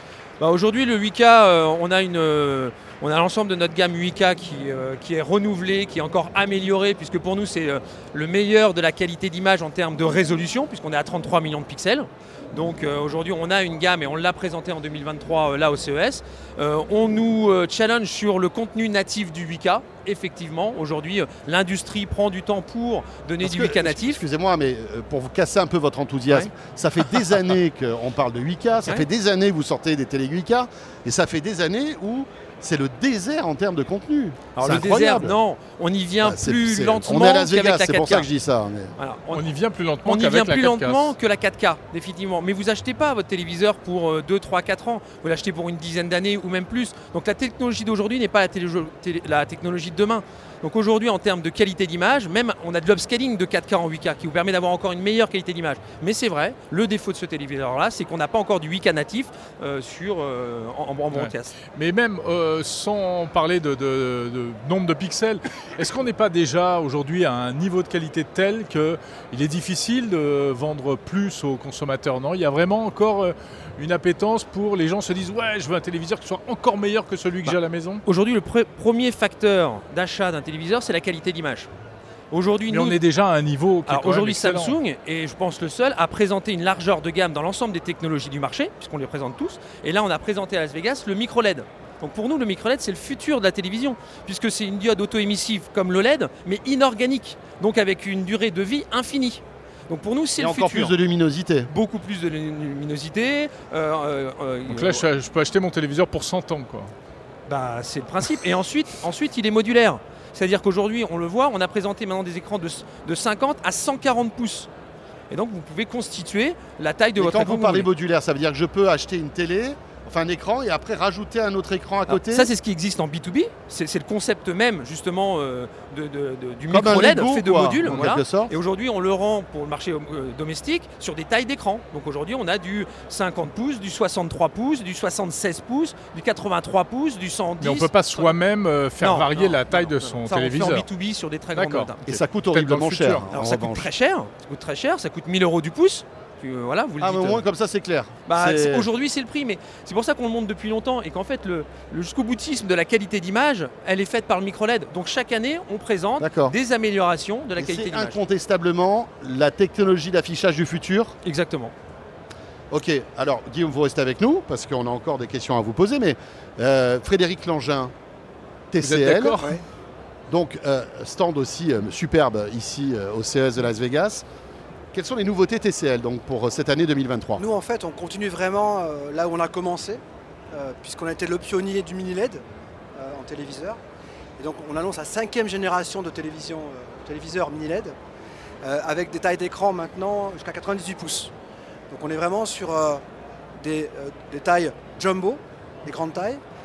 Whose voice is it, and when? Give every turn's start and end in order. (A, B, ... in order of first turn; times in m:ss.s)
0:00.4-0:24.2 A
0:23.4-0:35.4 B
0:34.6-0:38.3 A
0:36.2-0:38.9 B
0:39.0-0:39.5 A
0:39.3-0:41.1 C
0:40.0-1:01.6 A
1:01.1-1:18.0 C
1:17.4-1:21.7 A
1:22.3-1:23.0 A
1:22.7-1:24.8 C
1:23.9-1:41.0 A
1:40.4-1:41.7 B
1:41.7-1:45.0 A
1:44.7-1:46.9 C
1:47.5-1:54.7 A
1:55.3-1:57.9 A
1:57.2-2:02.5 B
2:02.1-2:18.4 A
2:06.7-2:08.5 B
2:17.6-2:20.9 C
2:19.0-2:22.2 A
2:21.5-2:21.9 C
2:22.0-2:23.9 B
2:22.5-2:23.3 C
2:23.3-2:27.4 A
2:27.0-2:28.9 B
2:28.3-2:38.2 A
2:36.2-2:36.6 B
2:37.6-2:41.1 B
2:41.2-2:41.7 A
2:42.7-2:47.9 B
2:48.7-2:49.4 B
2:48.8-2:49.6 C
2:50.3-2:54.2 B
2:54.9-2:57.4 B
2:57.4-3:02.4 D
3:03.0-3:03.8 D
3:04.4-3:08.0 D
3:08.6-3:11.3 D
3:11.9-3:13.0 D
3:13.6-3:16.4 D